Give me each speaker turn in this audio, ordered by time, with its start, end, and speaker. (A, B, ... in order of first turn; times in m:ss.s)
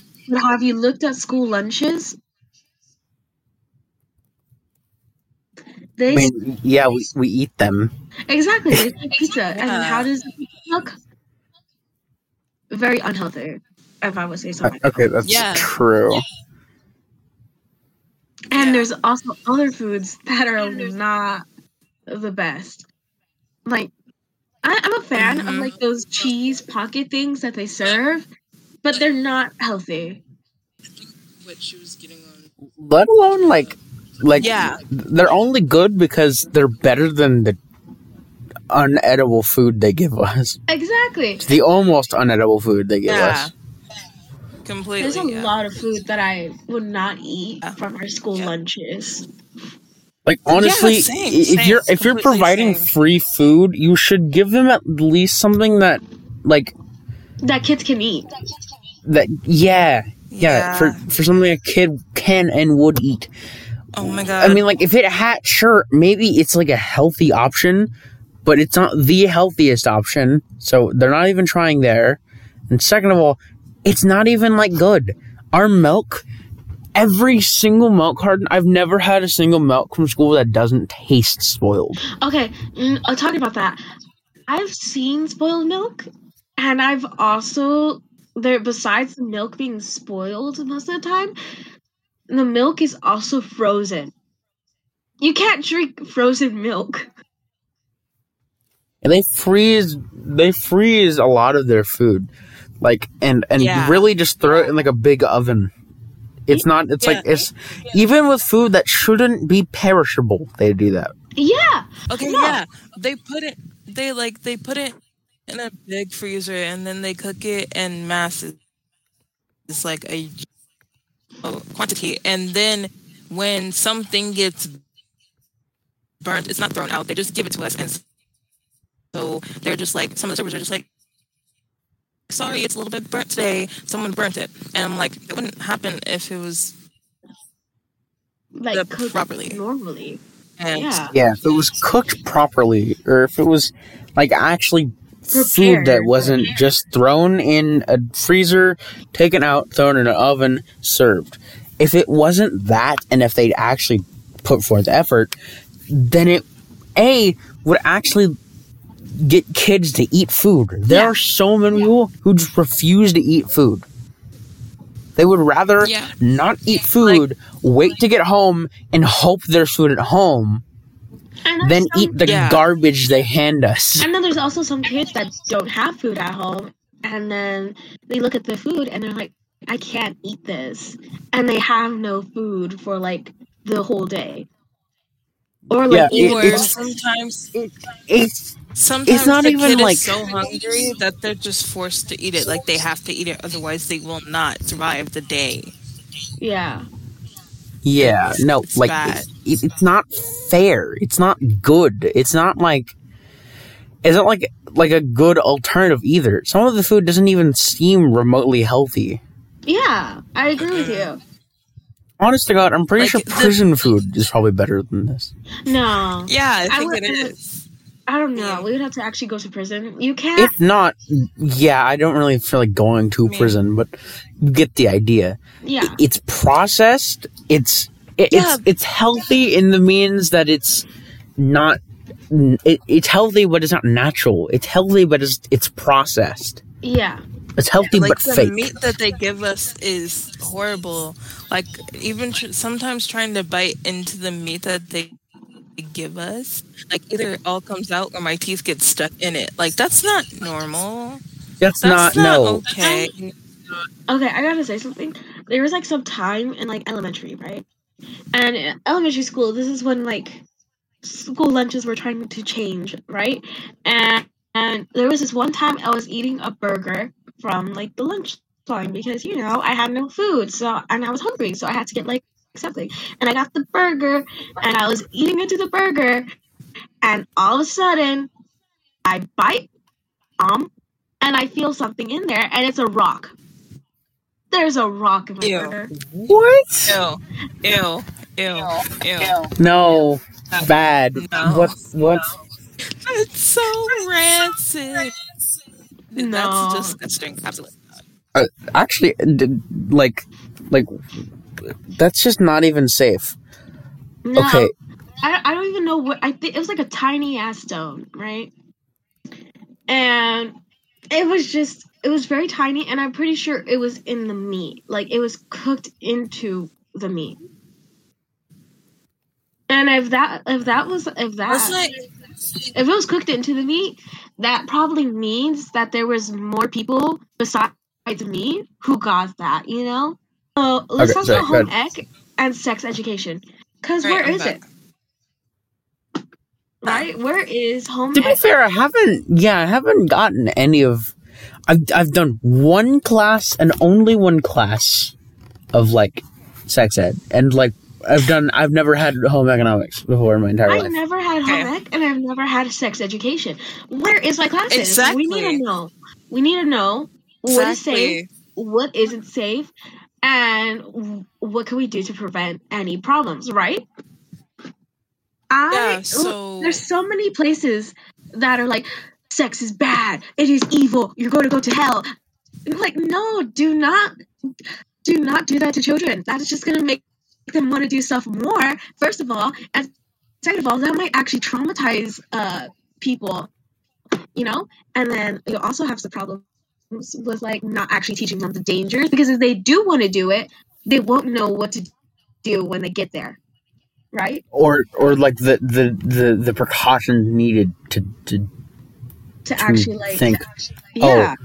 0:00.3-0:02.2 A
0:06.0-0:06.3 A
0:06.1-0:07.9 B
0:08.3-0:11.0 A
0:09.5-0:10.1 C
0:12.7-0:15.0 A
0:14.6-0:16.2 B
0:15.2-0:15.7 C
0:18.5-0:21.4 A
0:18.5-0:18.9 C
0:22.1-0:22.9 A
0:23.7-0:23.9 A
0:24.6-0:28.3 A
0:25.2-0:25.8 C
0:28.8-0:30.2 A
0:31.4-0:32.5 C
0:32.8-0:37.6 B
0:34.4-0:34.8 C
0:38.7-0:40.6 B
0:40.7-0:41.5 A
0:41.5-0:43.5 B
0:43.1-0:43.5 C
0:44.6-0:45.5 C
0:45.0-0:49.3 A
0:50.2-0:56.7 B
0:50.5-0:52.9 C
0:57.4-0:58.3 A
0:59.0-1:03.3 B
1:00.3-1:01.0 C
1:03.9-1:04.6 C
1:04.0-1:07.9 B
1:08.4-1:16.2 B
1:17.0-1:22.0 B
1:22.1-1:23.8 A
1:24.5-1:31.3 A
1:32.3-1:34.1 A
1:35.2-1:37.1 A
1:39.0-1:42.3 B
1:42.8-1:45.7 B
1:43.6-1:44.1 C
1:46.5-1:51.1 B
1:47.0-1:47.3 C
1:51.4-1:52.6 A
1:52.1-1:55.0 C
1:55.5-1:58.6 C
1:59.7-2:00.4 C
2:01.4-2:04.8 C
2:06.2-2:08.0 C
2:09.1-2:10.9 C
2:12.3-2:16.8 C
2:18.6-2:20.2 A
2:18.7-2:19.6 C
2:20.6-2:21.0 C
2:20.7-2:21.1 A
2:21.1-2:35.3 B
2:25.3-2:26.5 A
2:35.9-2:36.4 B
2:37.0-2:38.4 B
2:39.2-2:43.9 B
2:40.9-2:41.2 A
2:45.2-2:50.6 B
2:45.8-2:46.1 C
2:51.4-2:52.2 A
2:51.6-2:54.1 B
2:52.2-2:52.7 C
2:54.0-3:04.5 A
3:05.7-3:06.9 A
3:05.9-3:06.7 B
3:06.1-3:07.5 C
3:07.5-3:10.2 B
3:08.8-3:15.7 C
3:16.4-3:16.9 A
3:17.8-3:23.0 B
3:18.0-3:19.3 C
3:24.0-3:29.2 B
3:29.7-3:31.2 A
3:30.6-3:31.1 C
3:32.2-3:35.3 B
3:33.0-3:33.6 C
3:35.7-3:37.3 A
3:36.3-3:37.7 C
3:38.1-3:40.5 A
3:38.4-3:38.7 C
3:40.4-3:50.8 B
3:43.2-3:43.6 C
3:45.6-3:46.0 A
3:48.3-3:48.6 C
3:51.4-3:56.6 B
3:56.8-3:57.2 A
3:57.6-3:58.7 B
3:57.9-4:05.1 C
4:05.8-4:11.2 C
4:11.6-4:12.6 B
4:11.8-4:13.3 C
4:12.8-4:13.1 A
4:14.1-4:17.7 A
4:18.3-4:20.4 A
4:21.0-4:36.3 A
4:37.0-4:38.3 A
4:39.0-4:39.7 A
4:40.4-4:40.7 A
4:41.2-4:43.4 A
4:44.5-4:45.9 A
4:45.4-4:45.7 C
4:45.9-4:47.0 B
4:46.9-4:49.5 C
4:49.5-4:52.3 B
4:50.5-4:51.7 C
4:53.0-4:55.2 C
4:56.1-4:58.0 C
4:56.2-4:57.0 A
4:58.3-5:00.9 B
5:01.6-5:03.4 B
5:04.2-5:04.7 A
5:04.4-5:04.7 B
5:05.2-5:08.5 A
5:09.9-5:10.6 A
5:11.1-5:17.4 A
5:19.7-5:21.8 A
5:21.5-5:22.0 C
5:22.7-5:34.6 A
5:31.0-5:31.7 B
5:34.0-5:34.6 C
5:36.8-5:38.4 A
5:38.2-5:41.1 B
5:41.7-5:45.1 B
5:45.7-5:51.0 B
5:50.7-5:59.7 A
5:51.5-5:51.7 C
5:54.7-5:55.6 C
5:57.5-5:58.3 C
6:00.2-6:03.8 A
6:05.5-6:12.1 A
6:05.7-6:06.8 C
6:12.7-6:14.1 A
6:15.0-6:19.9 A
6:20.4-6:23.5 A
6:24.4-6:31.9 A
6:32.4-6:33.4 A
6:34.1-6:34.4 A
6:34.5-6:38.5 B
6:39.4-6:40.4 A
6:39.6-6:40.4 B
6:41.0-6:41.4 A
6:41.0-6:41.4 B